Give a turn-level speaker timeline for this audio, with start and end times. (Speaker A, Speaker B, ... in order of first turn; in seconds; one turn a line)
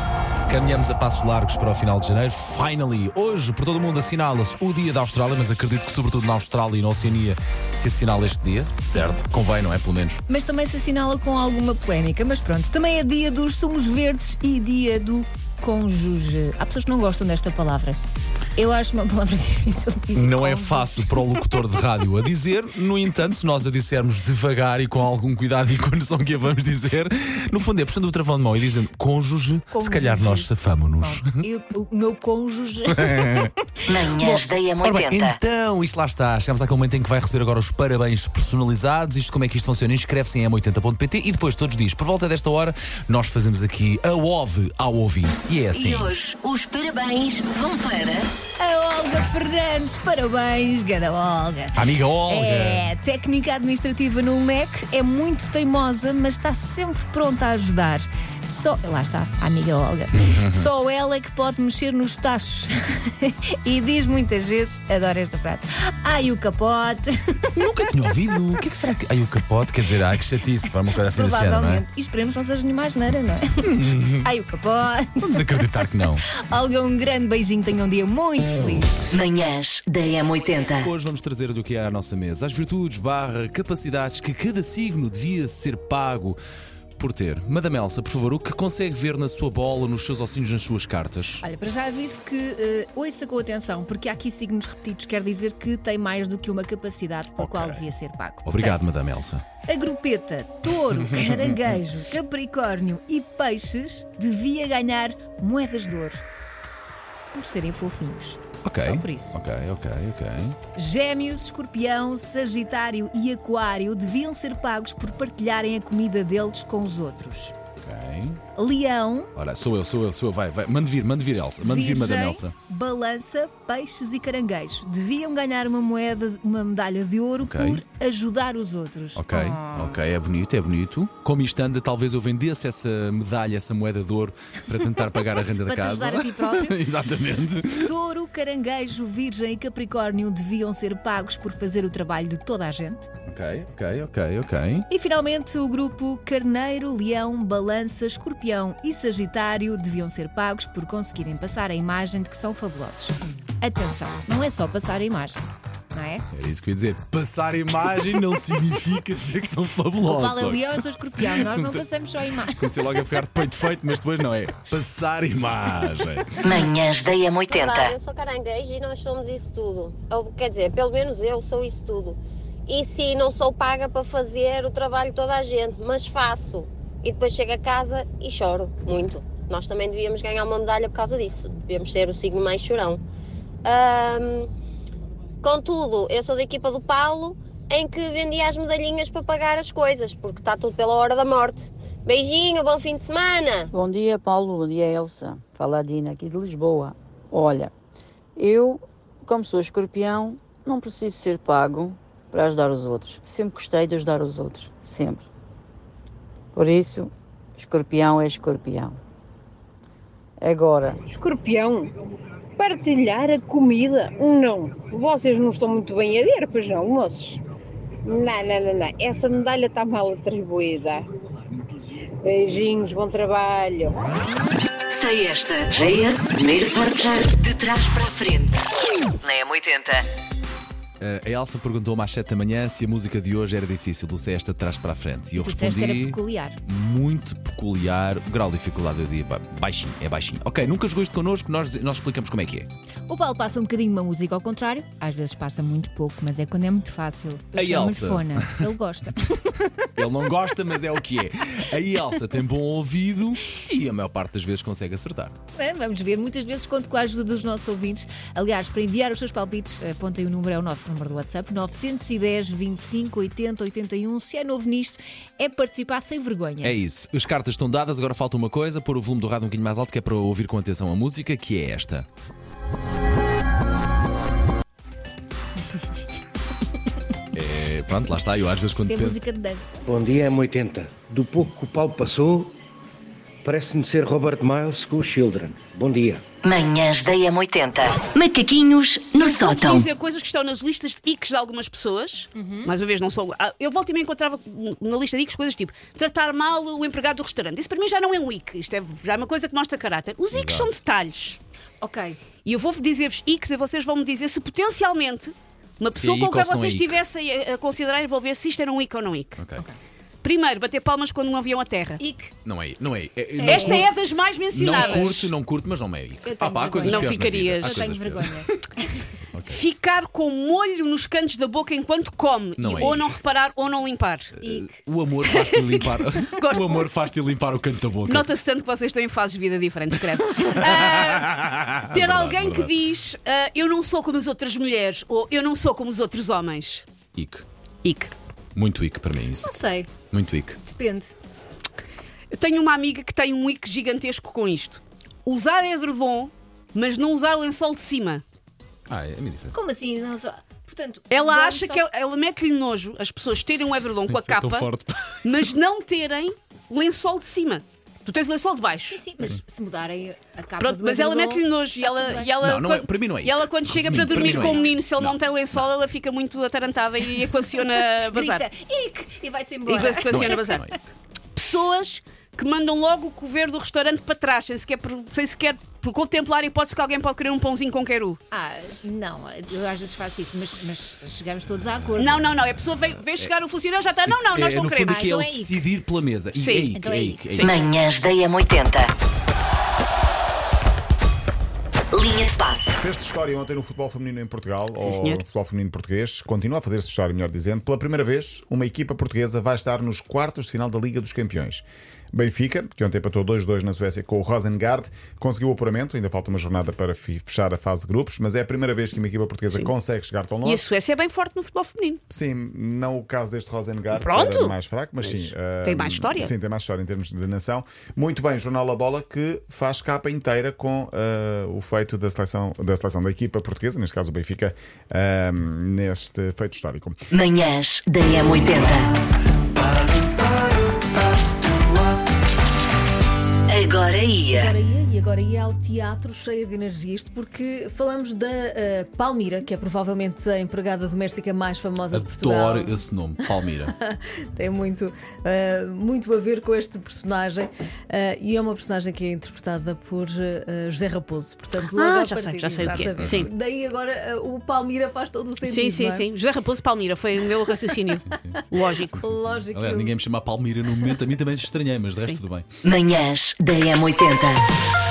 Speaker A: 0.5-10.2
Speaker B: 8.9-9.2
Speaker B: 10.3-18.0
Speaker B: 18.6-21.4
Speaker A: 20.2-31.4
Speaker B: 29.7-33.5
Speaker A: 32.9-33.5
Speaker C: 33.9-35.4
Speaker A: 34.2-46.1
Speaker C: 45.7-48.3
Speaker B: 48.6-67.1
Speaker A: 51.8-52.9
Speaker A: 60.2-60.7
Speaker A: 67.6-71.8
Speaker B: 71.0-75.7
Speaker A: 73.8-74.3
Speaker A: 75.2-76.2
Speaker B: 76.3-79.1
Speaker C: 79.1-80.9
Speaker A: 80.8-86.4
Speaker A: 87.0-91.4
Speaker B: 91.4-98.9
Speaker A: 97.4-97.8
Speaker A: 98.5-99.4
Speaker B: 99.7-106.2
Speaker B: 107.3-109.4
Speaker A: 108.7-110.6
Speaker B: 110.8-117.5
Speaker A: 117.8-118.4
Speaker B: 118.6-119.3
Speaker A: 119.4-122.5
Speaker B: 121.6-130.0
Speaker A: 127.4-127.8
Speaker A: 129.2-137.9
Speaker B: 135.7-136.8
Speaker B: 137.8-143.1
Speaker A: 143.3-144.9
Speaker B: 144.9-155.4
Speaker B: 155.9-156.2
Speaker A: 156.3-161.8
Speaker B: 160.0-162.8
Speaker A: 162.5-166.7
Speaker C: 166.4-167.9
Speaker D: 167.4-183.0
Speaker D: 183.6-184.5
Speaker D: 185.4-193.7
Speaker E: 193.7-197.7
Speaker E: 198.4-205.3
Speaker E: 206.5-209.0
Speaker E: 210.4-211.0
Speaker F: 211.1-211.9
Speaker F: 212.6-217.4
Speaker F: 218.1-221.0
Speaker F: 222.2-224.0
Speaker C: 224.9-228.7
Speaker C: 229.2-230.1
Speaker A: 231.0-242.7
Speaker B: 235.4-236.6
Speaker B: 243.1-249.8
Speaker A: 247.6-248.7
Speaker A: 250.0-255.4
Speaker B: 255.6-266.8
Speaker A: 266.6-272.1
Speaker A: 277.3-279.2
Speaker B: 278.8-279.7
Speaker G: 279.9-282.5
Speaker G: 283.4-286.2
Speaker C: 286.4-289.9
Speaker H: 289.2-301.4
Speaker B: 292.4-292.7
Speaker A: 300.3-300.8
Speaker B: 301.8-302.2
Speaker H: 302.4-309.4
Speaker A: 305.9-306.9
Speaker A: 309.4-309.6
Speaker H: 310.2-312.0
Speaker B: 312.0-312.3
Speaker A: 312.4-313.9
Speaker B: 313.4-313.9
Speaker H: 313.4-315.3
Speaker A: 314.5-318.6
Speaker B: 314.6-315.2
Speaker B: 316.2-318.9
Speaker H: 316.8-317.9
Speaker A: 319.3-319.6
Speaker H: 319.5-324.3
Speaker A: 322.6-323.2
Speaker B: 322.7-323.0
Speaker A: 324.4-328.3
Speaker B: 324.4-324.7
Speaker H: 325.3-326.9
Speaker H: 328.1-336.9
Speaker A: 330.4-332.7
Speaker A: 337.2-337.4
Speaker H: 337.8-338.1
Speaker A: 338.6-339.5
Speaker B: 339.4-339.9
Speaker A: 340.1-340.6
Speaker B: 340.6-341.1
Speaker H: 342.3-348.2
Speaker A: 348.9-349.6
Speaker B: 349.5-351.9
Speaker H: 351.1-354.7
Speaker A: 354.1-355.5
Speaker H: 355.2-359.0
Speaker B: 358.8-362.3
Speaker H: 360.6-368.4
Speaker A: 362.4-365.7
Speaker B: 363.9-364.7
Speaker B: 367.4-370.4
Speaker H: 369.7-370.6
Speaker A: 369.9-370.8
Speaker H: 371.4-378.2
Speaker B: 378.3-382.3
Speaker H: 382.0-385.0
Speaker A: 384.1-387.5
Speaker B: 384.9-385.6
Speaker H: 386.4-386.7
Speaker B: 386.8-387.6
Speaker C: 387.4-388.9
Speaker C: 391.9-392.7
Speaker I: 392.8-410.7
Speaker H: 394.8-395.2
Speaker H: 410.4-412.0
Speaker I: 412.1-427.0
Speaker H: 413.9-416.3
Speaker C: 427.1-428.9
Speaker C: 433.5-434.6
Speaker B: 434.4-438.0
Speaker J: 435.7-436.1
Speaker J: 436.9-442.7
Speaker B: 438.9-441.6
Speaker A: 441.9-443.7
Speaker B: 444.4-444.9
Speaker J: 445.2-456.0
Speaker B: 445.8-447.3
Speaker B: 448.4-448.9
Speaker B: 449.6-449.9
Speaker H: 451.7-453.3
Speaker B: 452.6-452.9
Speaker A: 453.0-453.3
Speaker B: 454.5-455.1
Speaker H: 455.4-459.0
Speaker A: 458.0-462.5
Speaker J: 459.0-459.9
Speaker C: 462.6-464.4